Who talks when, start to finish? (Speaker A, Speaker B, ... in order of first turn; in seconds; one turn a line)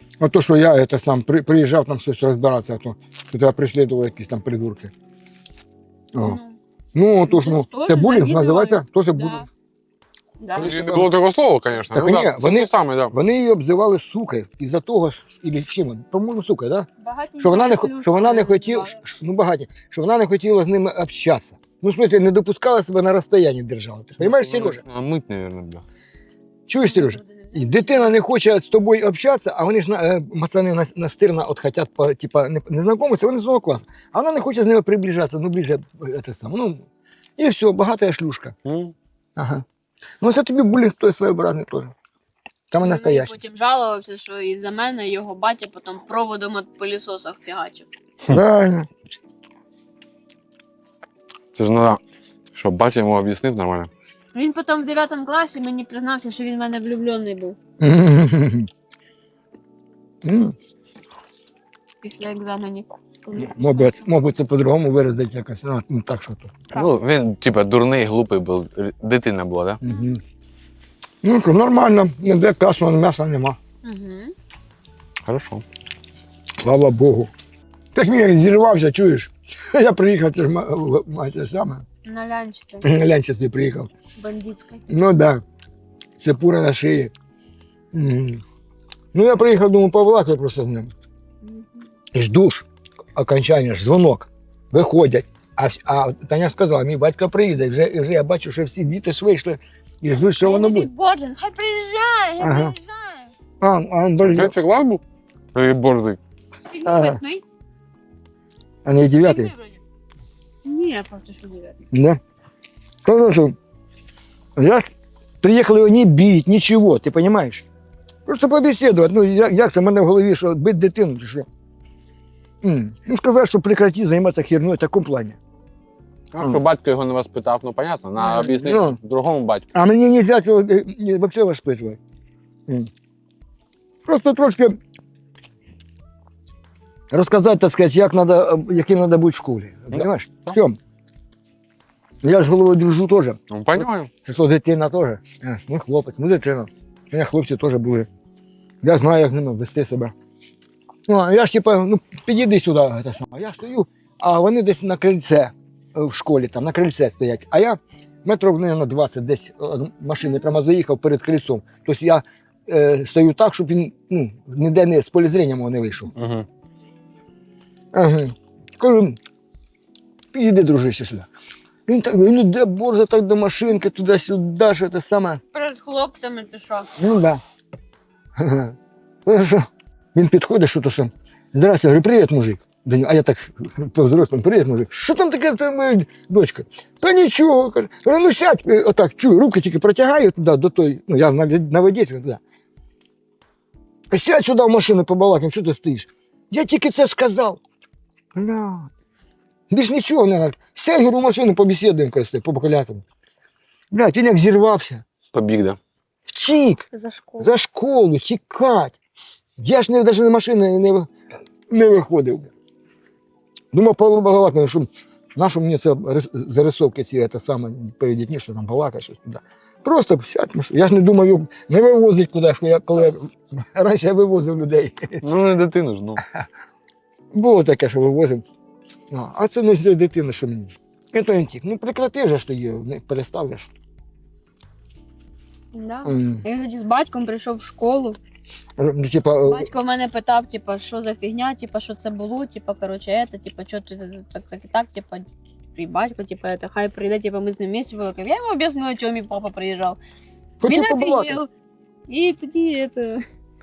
Speaker A: 0.2-4.9
Speaker A: 6.1-6.4
Speaker B: 6.2-6.6
Speaker A: 7.0-9.5
Speaker B: 7.2-9.5
Speaker B: 10.4-10.7
Speaker A: 10.6-11.2
Speaker C: 10.6-13.2
Speaker A: 11.9-16.9
Speaker B: 17.0-19.1
Speaker A: 17.4-24.8
Speaker C: 24.2-25.9
Speaker A: 26.7-38.5
Speaker B: 26.8-28.2
Speaker C: 38.6-38.9
Speaker A: 39.4-39.6
Speaker A: 40.2-41.9
Speaker A: 42.7-43.4
Speaker B: 42.8-47.9
Speaker A: 48.3-48.9
Speaker C: 51.5-52.0
Speaker C: 52.5-53.9
Speaker B: 54.3-57.6
Speaker A: 57.8-58.7
Speaker A: 60.2-60.5
Speaker B: 62.0-64.1
Speaker A: 63.3-66.6
Speaker C: 66.7-69.8
Speaker A: 69.8-70.2
Speaker A: 71.2-73.6
Speaker B: 73.8-74.3
Speaker C: 75.3-75.6
Speaker A: 76.6-77.3
Speaker A: 77.9-81.8
Speaker B: 82.0-82.9
Speaker A: 82.8-83.9
Speaker B: 84.2-84.9
Speaker A: 84.9-85.4
Speaker A: 86.2-87.1
Speaker A: 87.9-88.4
Speaker A: 89.1-90.9
Speaker B: 91.4-91.9
Speaker A: 92.1-100.9
Speaker B: 100.4-103.3
Speaker A: 102.4-102.8
Speaker A: 103.6-104.5
Speaker C: 104.2-106.2
Speaker B: 106.6-107.4
Speaker A: 106.8-107.2
Speaker A: 108.8-109.5
Speaker B: 109.1-109.8
Speaker B: 110.6-111.8
Speaker A: 111.9-112.2
Speaker A: 113.0-113.6
Speaker A: 114.6-114.9
Speaker A: 115.4-117.7
Speaker A: 118.3-121.5
Speaker A: 122.6-125.4
Speaker C: 126.3-129.7
Speaker A: 126.4-126.6
Speaker A: 128.2-129.0
Speaker A: 129.7-132.0
Speaker A: 134.1-134.8
Speaker A: 137.1-140.8
Speaker C: 139.9-140.6
Speaker A: 142.2-148.1
Speaker C: 143.5-144.1
Speaker A: 148.8-150.2
Speaker A: 151.1-166.1
Speaker B: 160.2-160.5
Speaker C: 166.2-166.5
Speaker A: 167.9-169.2
Speaker A: 170.3-171.3
Speaker A: 171.9-175.4
Speaker B: 175.5-176.9
Speaker A: 177.0-177.4
Speaker A: 178.4-192.4
Speaker A: 194.1-197.6
Speaker A: 198.3-198.9
Speaker A: 199.7-203.0
Speaker A: 203.9-205.0
Speaker C: 205.3-205.8
Speaker A: 206.3-206.9
Speaker B: 206.9-207.5
Speaker A: 207.4-209.0
Speaker A: 209.6-211.1
Speaker A: 211.7-212.5
Speaker A: 213.7-225.2
Speaker C: 225.2-226.2
Speaker A: 227.3-228.4
Speaker A: 229.1-233.7
Speaker B: 235.7-238.2
Speaker A: 236.1-236.4
Speaker A: 238.8-239.7
Speaker B: 239.4-250.0
Speaker A: 250.6-251.4
Speaker B: 250.7-251.5
Speaker B: 252.1-253.3